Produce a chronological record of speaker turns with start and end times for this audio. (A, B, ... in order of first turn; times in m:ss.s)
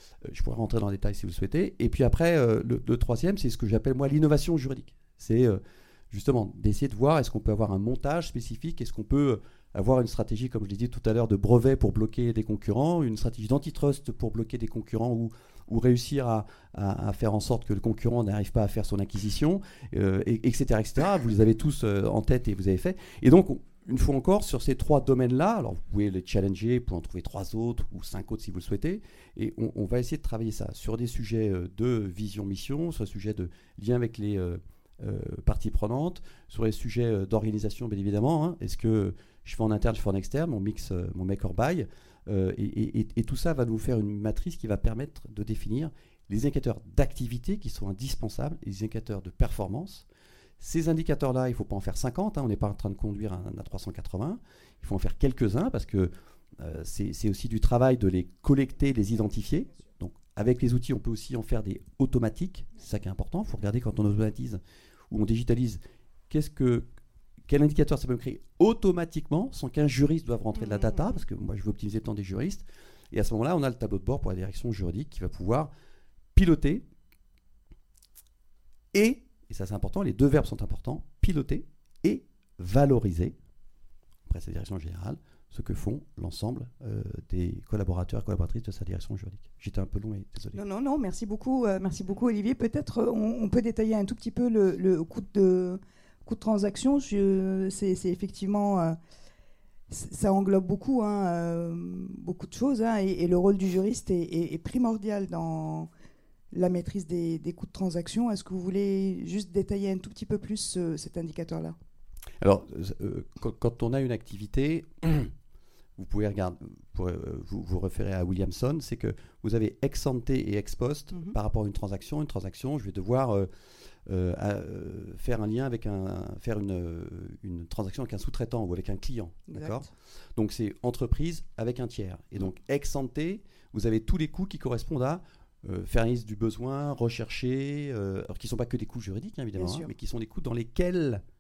0:00.2-0:50.0 A
0:50.6-1:06.9 A
1:07.5-1:15.7 A
1:10.6-1:11.2 B
1:16.4-1:16.8 A
1:18.9-1:23.4 A
1:24.3-1:30.6 A
1:30.5-1:39.0 B
1:39.9-1:45.9 B
1:46.5-1:51.8 B
1:52.4-1:55.3 A
1:56.0-2:03.5 A
2:04.1-2:21.2 A
2:09.5-2:09.8 B
2:19.6-2:19.9 B